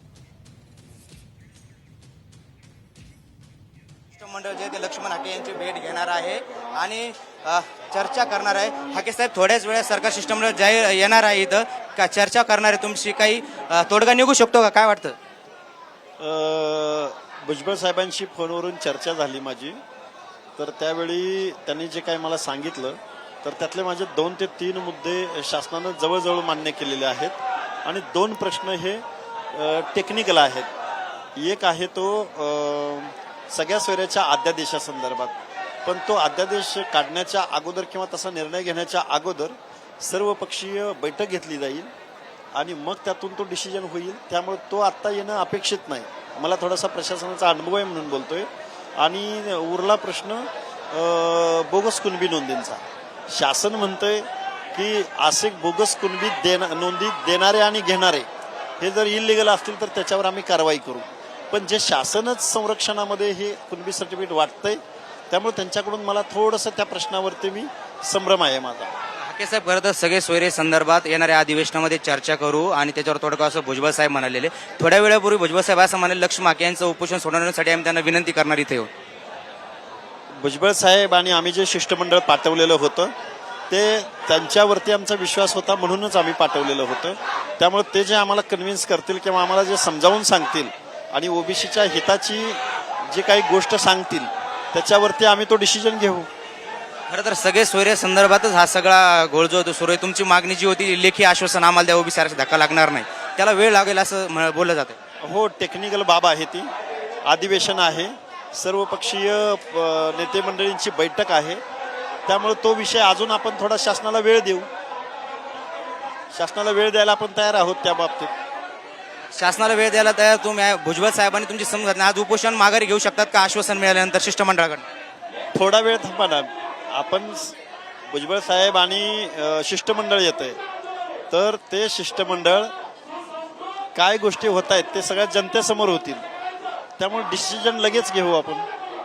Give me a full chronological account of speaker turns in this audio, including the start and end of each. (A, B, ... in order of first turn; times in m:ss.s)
0:04.1-0:15.2 A
0:16.2-0:19.8 B
0:20.6-0:30.7 B
0:31.4-0:41.9 B
0:42.5-0:58.3 B
0:58.8-1:08.9 B
1:09.2-1:18.9 A
1:20.4-1:23.1 B
1:23.7-1:36.3 B
1:37.1-1:45.0 A
1:45.2-1:46.7 B
1:47.2-1:51.6 B
1:52.3-1:54.7 B
1:56.3-1:58.3 B
1:59.3-2:04.8 A
2:05.5-2:07.5 B
2:08.1-2:10.6 B
2:11.3-2:12.7 B
2:13.9-2:16.2 B
2:17.0-2:18.7 B